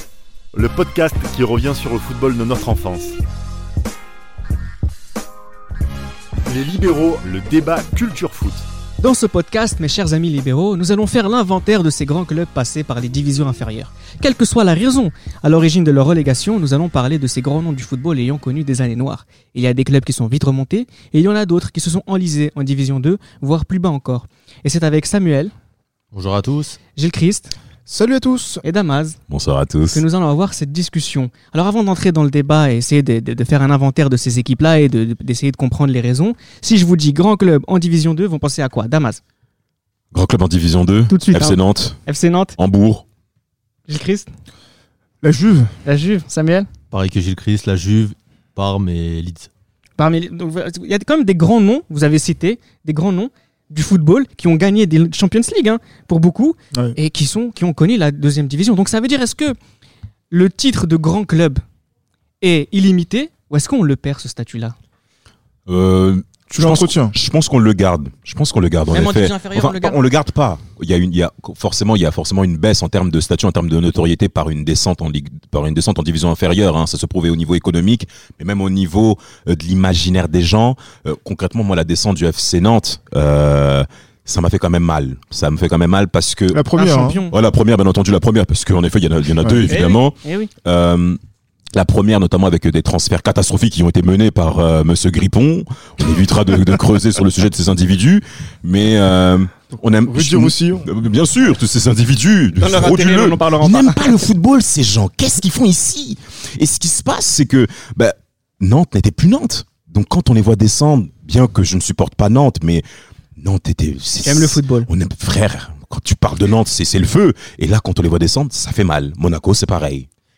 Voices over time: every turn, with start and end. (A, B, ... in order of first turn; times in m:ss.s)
0:00.5-0:03.2 A
0:06.5-0:08.6 A
0:09.0-0:25.5 B
0:26.1-0:26.8 C
0:27.0-0:27.5 B
0:27.9-0:28.6 D
0:28.6-0:29.2 B
0:29.3-0:30.0 E
0:29.9-0:39.2 B
0:40.1-0:42.0 E
0:41.1-0:42.6 B
0:42.6-0:43.0 E
0:43.9-0:44.3 B
0:45.2-0:45.7 D
0:45.8-0:46.7 B
0:46.9-0:49.5 C
0:50.0-0:59.6 B
1:00.3-1:01.6 B
1:02.4-1:04.8 B
1:05.7-1:26.6 E
1:06.5-1:07.2 D
1:08.9-1:10.0 B
1:26.5-1:27.2 D
1:26.8-1:27.3 B
1:27.3-1:31.2 E
1:29.4-1:29.8 D
1:29.7-1:30.5 B
1:31.7-1:52.8 E
1:40.0-1:40.9 D
1:42.6-1:44.1 B
1:53.4-2:00.1 E
1:54.2-1:54.9 B